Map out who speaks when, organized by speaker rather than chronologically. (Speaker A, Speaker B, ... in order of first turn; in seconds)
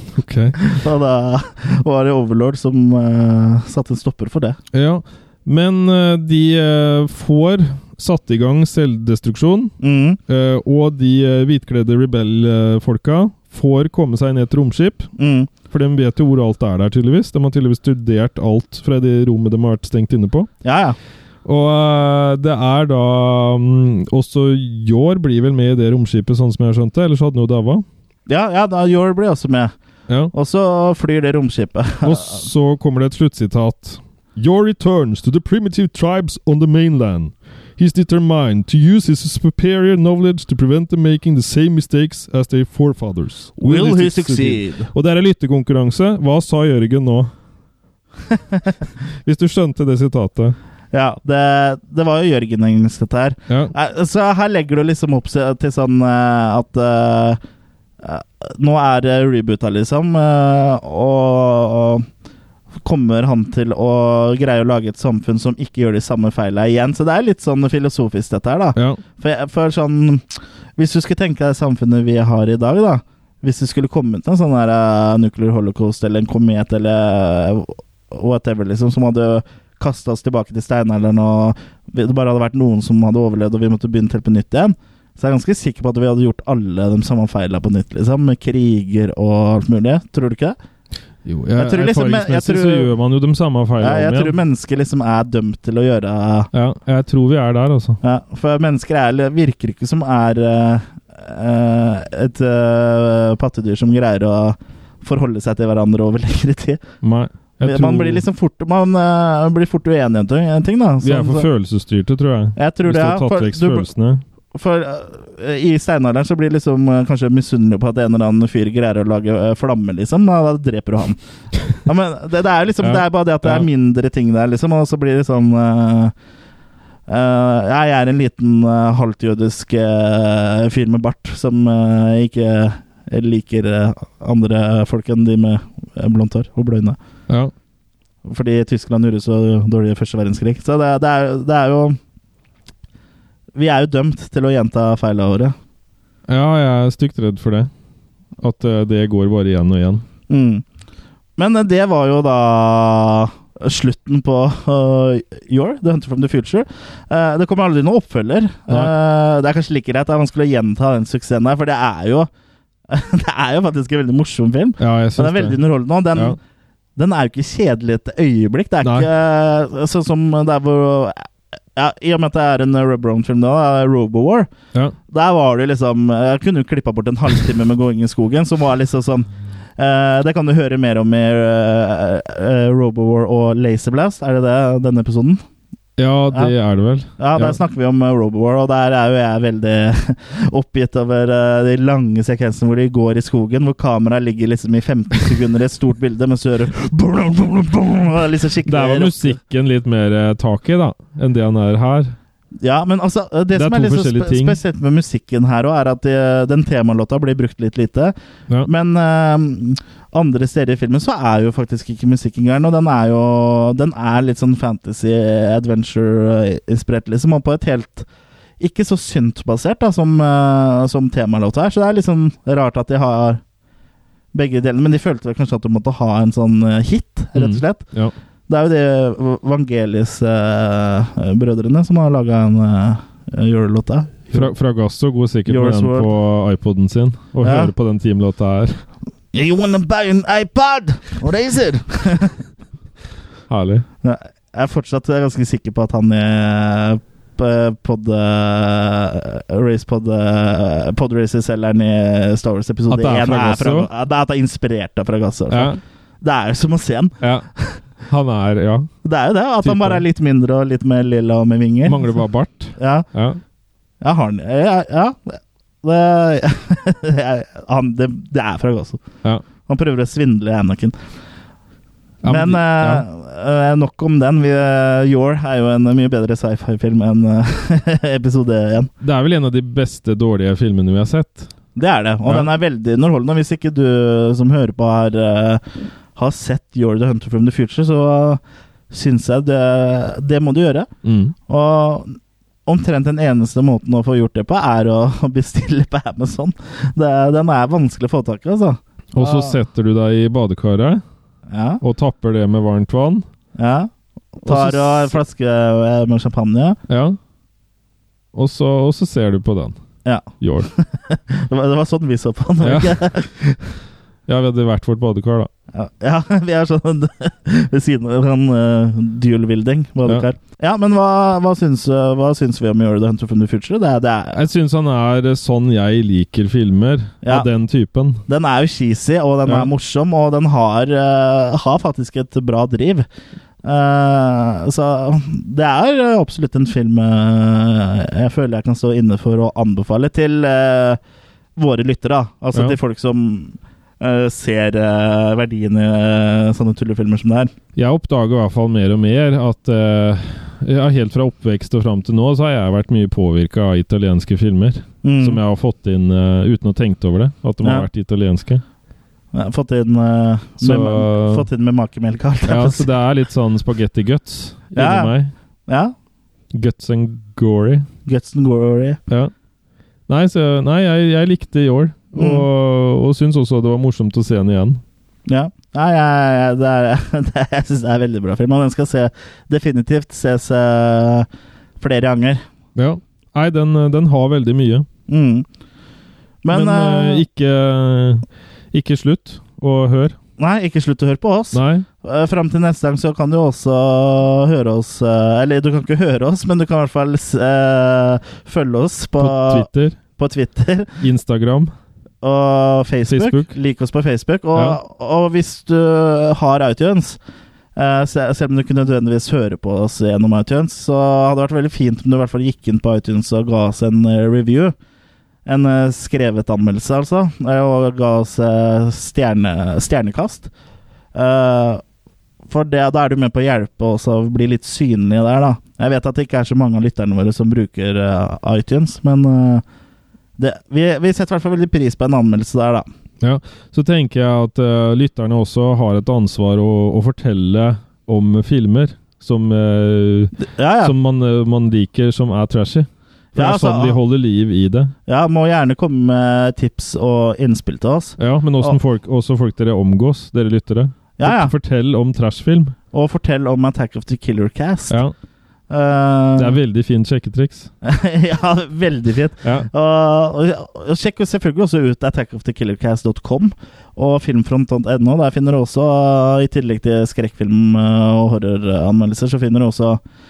Speaker A: 0.1-0.6, 4.7-9.7, 10.3-15.1, 15.7-20.5, 21.4-27.8, 32.0-47.3, 49.2-50.5, 68.8-69.0, 91.2-94.4, 96.5-98.0, 107.0-108.2, 111.0-114.2, 122.8-123.7, 146.3-147.7, 148.4-150.0, 164.8-165.6, 168.8-169.1, 186.0-187.6, 198.6-202.1, 203.5-204.6, 227.3-228.1, 234.3-238.8, 243.5-243.8, 252.9-253.9, 255.5-255.8, 257.2-257.5, 258.0-258.9, 259.6-260.0, 261.9-263.4, 272.2-273.0, 279.0-281.5, 291.0-291.3, 299.1-301.0, 301.8-303.2, 304.4-305.2, 306.9-307.2, 308.3-309.8, 310.4-310.7, 312.6-312.9, 314.3-315.5, 324.3-328.2, 342.5-342.8, 347.8-358.6, 360.6-361.5, 362.5-365.3, 366.5-367.9, 370.1-374.8, 382.7-384.9, 386.5-390.1, 391.5-391.9, 399.2-400.0, 401.0-401.7, 403.1-403.5, 433.2-444.9, 448.2-452.7, 456.4-457.7, 459.4-459.7
Speaker B: 0.6-4.6, 9.8-10.2, 15.2-15.5, 20.6-21.0, 28.3-29.7, 30.3-32.5, 43.6-44.9, 48.3-48.7, 50.9-57.4, 58.0-62.1, 62.8-90.5, 91.6-92.9, 93.8-96.5, 98.0-106.8, 107.6-111.5, 112.5-113.9, 114.5-121.2, 121.8-126.1, 127.1-137.0, 138.2-142.0, 143.5-145.5, 150.3-150.6, 151.4-162.3, 162.9-166.4, 166.9-174.5, 175.1-185.4, 187.2-199.4, 202.6-218.1, 218.6-223.4, 224.3-227.8, 228.5-234.5, 235.4-236.1, 237.4-237.7, 239.3-242.4, 244.0-257.8, 259.0-262.0, 262.8-263.1, 264.0-269.0, 269.6-270.9, 272.3-278.9, 281.8-285.6, 286.1-290.9, 291.5-299.6, 301.5-301.8, 303.6-306.8, 310.0-313.7, 315.7-324.4, 327.2-327.5, 328.3-333.1, 333.6-341.0, 341.6-347.5, 355.0-355.4, 357.6-357.9, 359.3-362.9, 364.7-365.1, 365.7-365.9, 368.1-369.0, 372.1-372.4, 375.3-381.3, 381.8-382.4, 385.1-385.4, 386.4-387.2, 390.4-401.0, 402.2-407.2, 407.8-414.7, 415.4-420.5, 421.1-421.8, 422.5-429.6, 430.4-432.9, 440.4-440.9, 443.3-444.0, 445.1-448.8, 451.2-451.5, 452.9-455.0, 455.7-456.6, 457.8-470.0